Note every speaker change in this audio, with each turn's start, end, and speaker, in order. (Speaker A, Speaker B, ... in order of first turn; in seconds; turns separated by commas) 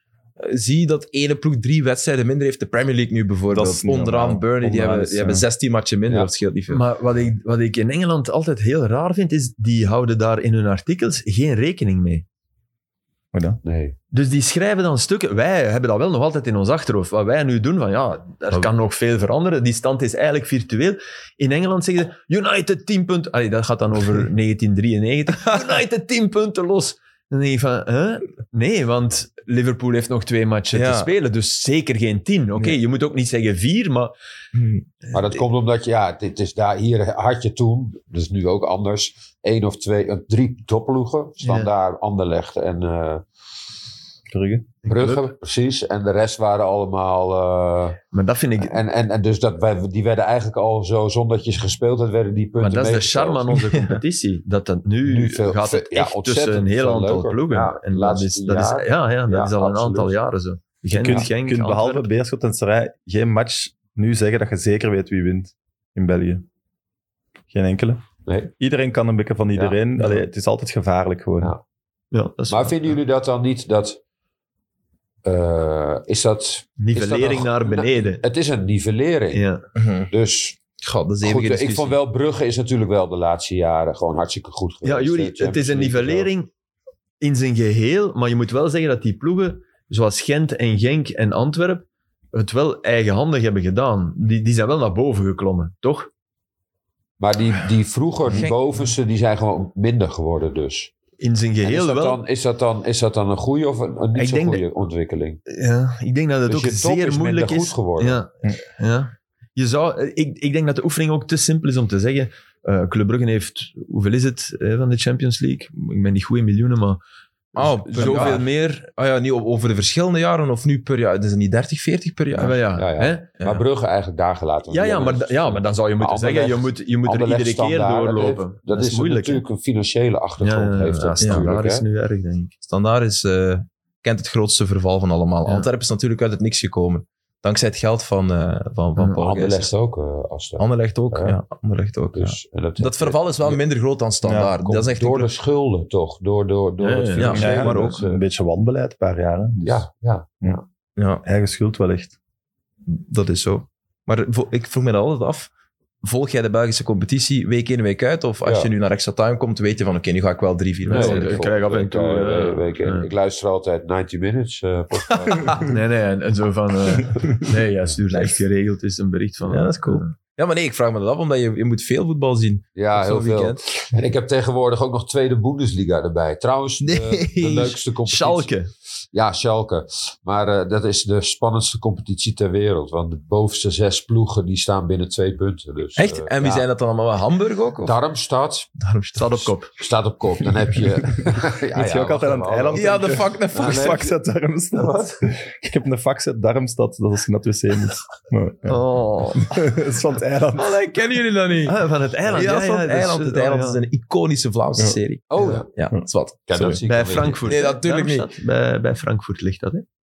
Speaker A: 0.4-6.8, Speaker B: 3.5-5.5, Speaker C: 6.7-12.2, Speaker B: 13.3-13.6, Speaker D: 13.6-14.0, Speaker C: 14.1-34.1, Speaker A: 30.7-31.1, Speaker A: 34.5-34.9, Speaker D: 35.1-43.2, Speaker C: 41.4-41.7, Speaker B: 44.3-44.7, Speaker C: 44.9-45.3, Speaker D: 44.9-48.0, Speaker C: 48.1-48.8, Speaker D: 48.6-53.6, Speaker C: 52.6-62.1, Speaker A: 53.7-54.0, Speaker D: 55.0-60.1, Speaker B: 60.9-66.5, Speaker B: 67.5-68.0, Speaker D: 68.3-68.5, Speaker B: 68.6-71.5, Speaker C: 72.1-72.8, Speaker D: 72.5-74.0, Speaker D: 75.2-79.5, Speaker C: 76.8-78.2, Speaker C: 79.3-79.6, Speaker A: 79.8-80.1, Speaker D: 80.1-80.6, Speaker A: 80.8-82.0, Speaker D: 81.2-86.3, Speaker C: 84.8-86.5, Speaker C: 87.2-96.1, Speaker D: 97.2-100.9, Speaker C: 101.2-102.2, Speaker D: 101.6-105.4, Speaker C: 104.2-104.6, Speaker C: 105.5-117.0, Speaker D: 106.5-108.2, Speaker A: 117.5-122.6, Speaker C: 117.6-118.9, Speaker C: 122.3-123.3, Speaker D: 122.8-131.8, Speaker C: 124.7-129.4, Speaker C: 130.4-132.5, Speaker A: 131.2-131.5, Speaker A: 132.6-139.7, Speaker D: 139.2-141.4, Speaker A: 140.6-145.3, Speaker D: 142.2-143.6, Speaker B: 144.2-144.6, Speaker D: 144.7-148.2, Speaker C: 146.8-147.5, Speaker A: 147.2-148.0, Speaker B: 147.3-149.8, Speaker D: 149.6-150.6, Speaker A: 151.0-151.2, Speaker B: 151.2-152.2, Speaker A: 152.9-155.5, Speaker A: 156.0-161.4, Speaker D: 158.4-158.7, Speaker C: 160.9-163.1, Speaker D: 160.9-165.8, Speaker A: 165.2-165.7, Speaker C: 165.6-170.1, Speaker A: 168.1-168.4, Speaker A: 169.5-173.7, Speaker D: 172.8-178.5, Speaker A: 176.8-177.8, Speaker C: 178.1-178.7, Speaker D: 179.1-186.7, Speaker A: 186.0-188.0, Speaker D: 187.8-188.7, Speaker A: 188.8-189.5, Speaker C: 189.2-189.7, Speaker D: 189.8-194.0, Speaker B: 191.2-198.8, Speaker A: 192.7-194.1, Speaker D: 194.8-195.2, Speaker C: 198.7-199.5, Speaker B: 199.3-200.8, Speaker A: 200.6-206.8, Speaker C: 201.7-203.8, Speaker D: 205.3-205.7, Speaker C: 205.4-205.6, Speaker D: 206.5-207.5, Speaker C: 206.6-209.8, Speaker A: 207.4-208.3